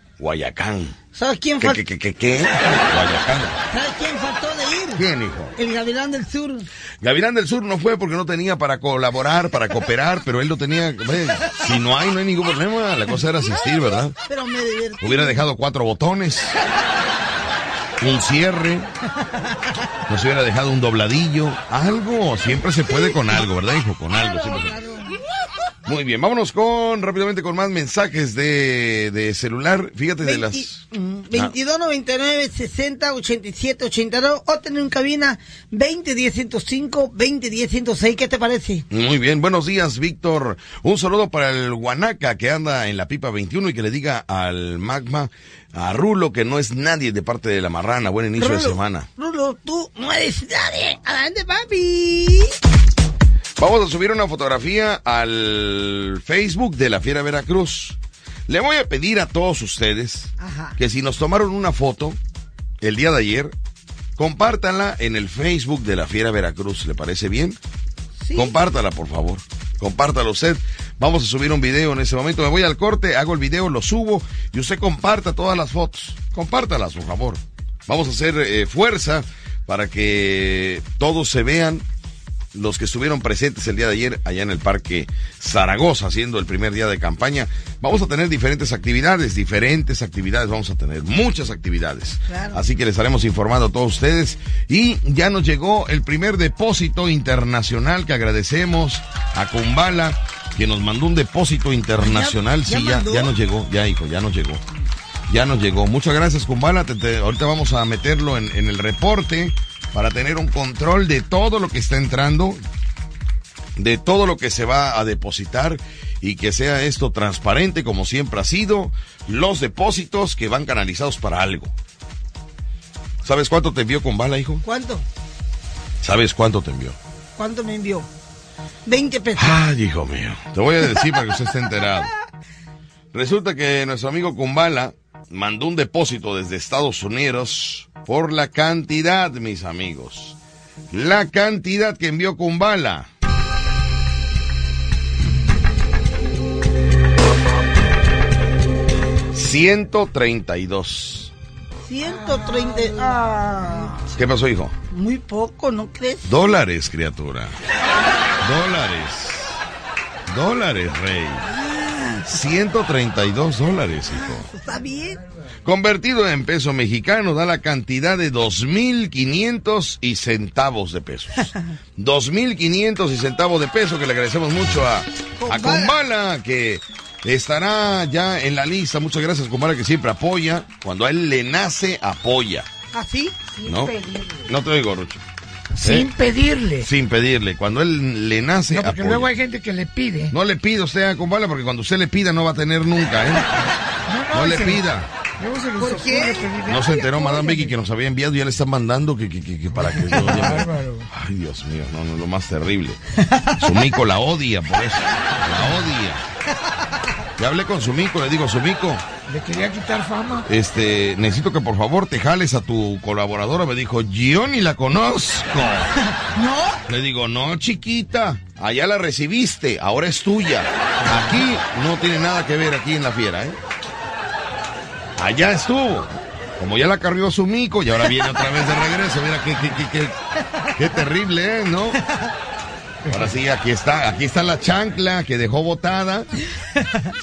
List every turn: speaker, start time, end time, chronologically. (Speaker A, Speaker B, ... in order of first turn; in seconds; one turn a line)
Speaker A: 0.2-1.0
Speaker B: 1.1-1.8
Speaker A: 1.6-3.6
Speaker B: 3.7-5.0
Speaker A: 5.0-5.5
Speaker B: 5.6-6.7
Speaker A: 7.0-14.2
Speaker B: 14.2-15.4
Speaker A: 15.0-16.6
Speaker A: 18.0-18.9
Speaker B: 19.2-19.8
Speaker A: 20.1-24.8
Speaker B: 24.1-25.2
Speaker A: 25.9-31.5
Speaker B: 30.2-38.9
Speaker A: 38.9-49.1
Speaker B: 48.4-52.5
Speaker A: 53.6-62.2
Speaker B: 60.4-60.8
Speaker A: 62.8-63.5
Speaker A: 64.2-67.6
Speaker B: 68.2-68.5
Speaker A: 68.3-81.8
Speaker A: 82.5-104.6
Speaker B: 92.3-92.6
Speaker B: 102.0-103.3
Speaker A: 105.3-112.6
Speaker A: 113.8-121.7
Speaker A: 123.2-124.6
Speaker B: 124.6-125.0
Speaker A: 126.0-127.0
Speaker B: 127.4-128.1
Speaker B: 128.8-129.6
Speaker A: 129.4-132.1
Speaker A: 133.1-140.4
Speaker A: 140.9-143.1
Speaker A: 149.3-151.3
Speaker B: 151.8-154.0
Speaker A: 154.2-154.7
Speaker B: 154.9-156.3
Speaker A: 156.2-157.6
Speaker A: 158.4-159.6
Speaker A: 160.3-161.5
Speaker B: 161.4-162.4
Speaker A: 162.3-164.5
Speaker B: 164.1-165.2
Speaker A: 165.7-182.7
Speaker B: 175.4-176.0
Speaker B: 182.9-183.5
Speaker C: 183.6-184.5
Speaker A: 183.7-183.9
Speaker A: 184.5-185.2
Speaker C: 185.8-186.9
Speaker A: 185.8-186.1
Speaker A: 186.8-189.3
Speaker C: 188.7-190.3
Speaker A: 190.3-193.6
Speaker C: 194.1-194.8
Speaker A: 194.3-195.1
Speaker C: 195.4-197.8
Speaker B: 195.8-196.5
Speaker A: 196.7-203.0
Speaker C: 199.7-201.1
Speaker B: 203.2-203.9
Speaker A: 203.5-206.2
Speaker B: 206.5-207.1
Speaker A: 207.4-209.0
Speaker C: 209.3-210.5
Speaker A: 210.5-215.9
Speaker B: 215.9-216.8
Speaker A: 216.9-223.6
Speaker A: 225.2-230.2
Speaker A: 230.8-232.0
Speaker B: 232.1-232.3
Speaker A: 233.1-236.3
Speaker B: 236.8-237.1